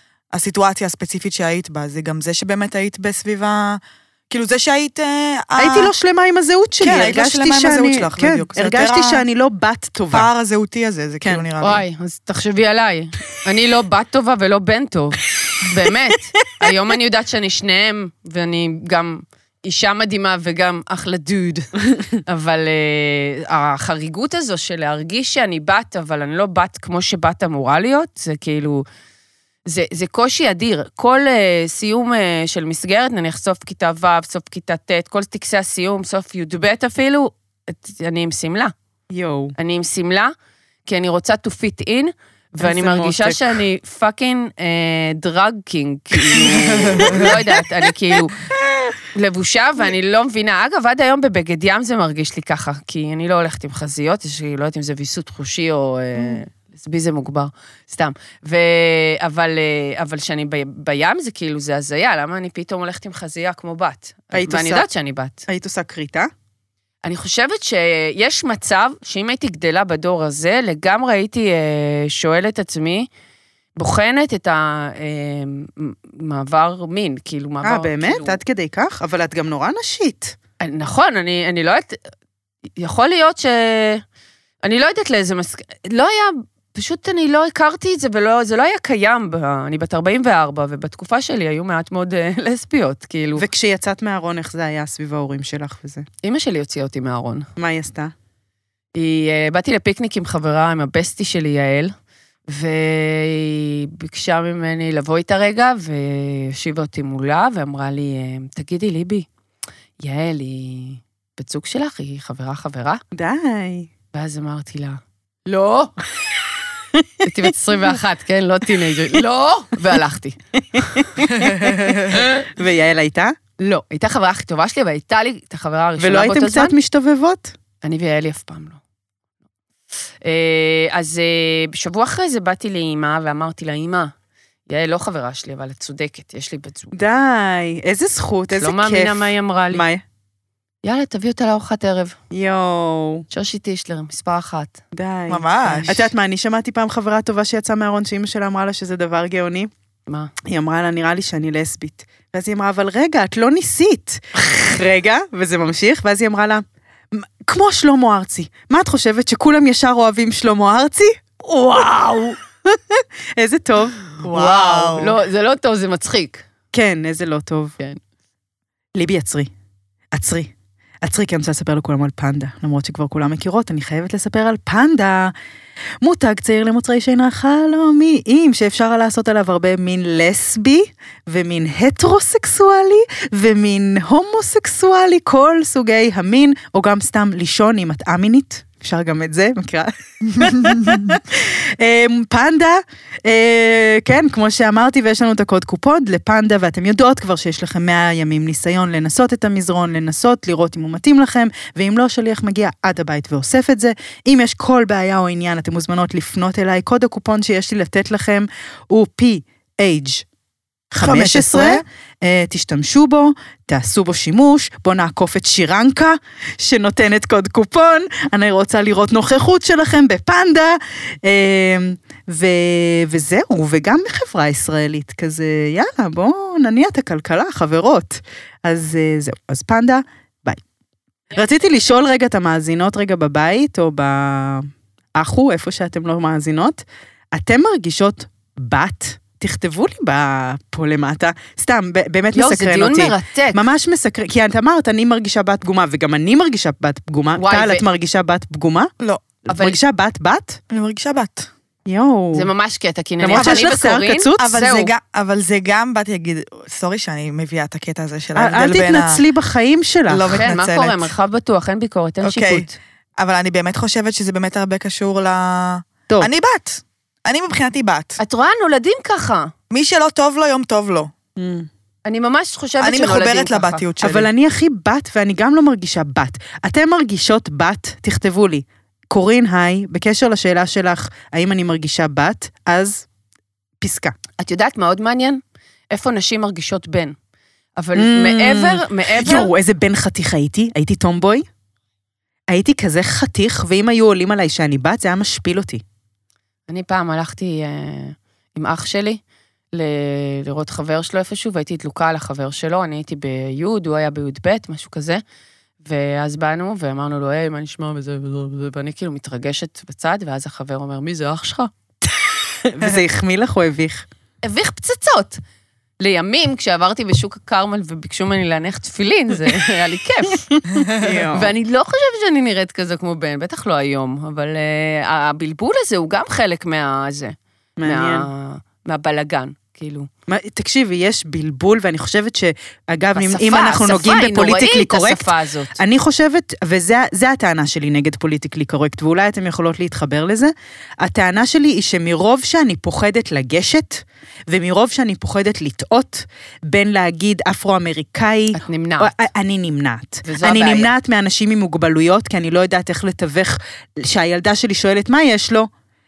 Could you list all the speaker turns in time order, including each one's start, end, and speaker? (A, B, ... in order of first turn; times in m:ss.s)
0:00.3-0:05.9 A
0:05.6-0:10.3 B
0:06.8-0:09.2 A
0:10.1-0:11.8 A
0:11.6-0:28.8 C
0:29.6-0:38.7 C
0:39.1-0:39.6 B
0:39.6-0:40.3 C
0:40.8-0:48.4 C
0:42.6-0:43.6 B
0:46.8-0:47.4 B
0:49.1-1:05.4 C
1:04.3-1:04.8 B
1:05.5-1:06.3 B
1:07.0-1:13.1 C
1:13.8-1:18.4 C
1:17.6-1:20.4 B
1:20.6-1:22.0 C
1:22.8-1:24.0 C
1:24.6-1:33.4 C
1:33.4-1:36.1 B
1:36.2-1:37.5 C
1:37.6-1:38.1 B
1:38.9-1:41.9 C
1:42.5-1:49.2 C
1:50.0-1:53.0 C
1:53.1-1:53.9 B
1:54.1-1:55.9 C
1:57.0-1:57.2 B
1:57.2-2:01.1 C
2:00.7-2:03.4 B
2:02.1-2:02.4 C
2:03.6-2:06.8 C
2:06.0-2:07.5 B
2:07.8-2:08.8 C
2:10.2-2:14.1 C
2:14.7-2:16.9 C
2:16.9-2:20.0 B
2:18.6-2:19.8 C
2:20.8-2:22.2 C
2:22.3-2:23.2 B
2:23.3-2:24.8 C
2:24.9-2:29.7 B
2:25.3-2:25.9 A
2:25.6-2:26.1 C
2:30.1-2:30.3 C
2:30.4-2:41.2 B
2:41.4-2:42.4 C
2:42.6-2:44.0 B
2:44.2-2:46.4 C
2:44.2-2:45.2 A
2:46.7-2:47.8 B
2:48.9-2:49.5 B
2:50.1-2:55.3 B
2:56.0-3:30.2 B
3:30.9-3:50.6 B
3:31.0-3:31.8 A
3:51.3-4:08.9 B
4:02.3-4:03.6 C
4:07.4-4:07.8 C
4:09.0-4:09.3 A
4:09.5-4:10.6 B
4:09.5-4:09.8 C
4:10.7-4:11.5 A
4:11.8-4:12.5 B
4:12.3-4:14.9 C
4:13.2-4:14.5 B
4:13.3-4:13.7 A
4:14.4-4:19.2 A
4:18.4-4:20.5 B
4:20.1-4:21.1 A
4:20.3-4:22.8 C
4:22.2-4:22.6 A
4:23.2-4:28.2 A
4:28.2-4:29.5 C
4:29.7-4:31.1 A
4:31.4-4:31.7 B
4:32.0-4:33.8 C
4:32.8-4:34.3 A
4:34.0-4:43.0 B
4:43.8-4:44.1 B
4:44.4-4:45.4 C
4:45.9-4:47.2 C
4:47.8-4:49.5 C
4:47.9-4:51.5 B
4:52.5-4:55.8 B
4:56.7-4:59.2 C
4:59.7-5:05.2 C
5:05.8-5:11.7 C
5:12.6-5:14.0 B
5:14.4-5:15.4 C
5:16.0-5:20.6 C
5:20.9-5:21.5 B
5:21.3-5:30.1 C
5:27.8-5:28.3 B
5:30.3-5:55.7 B
5:33.1-5:35.8 C
5:48.5-5:49.1 C
5:50.2-5:50.9 C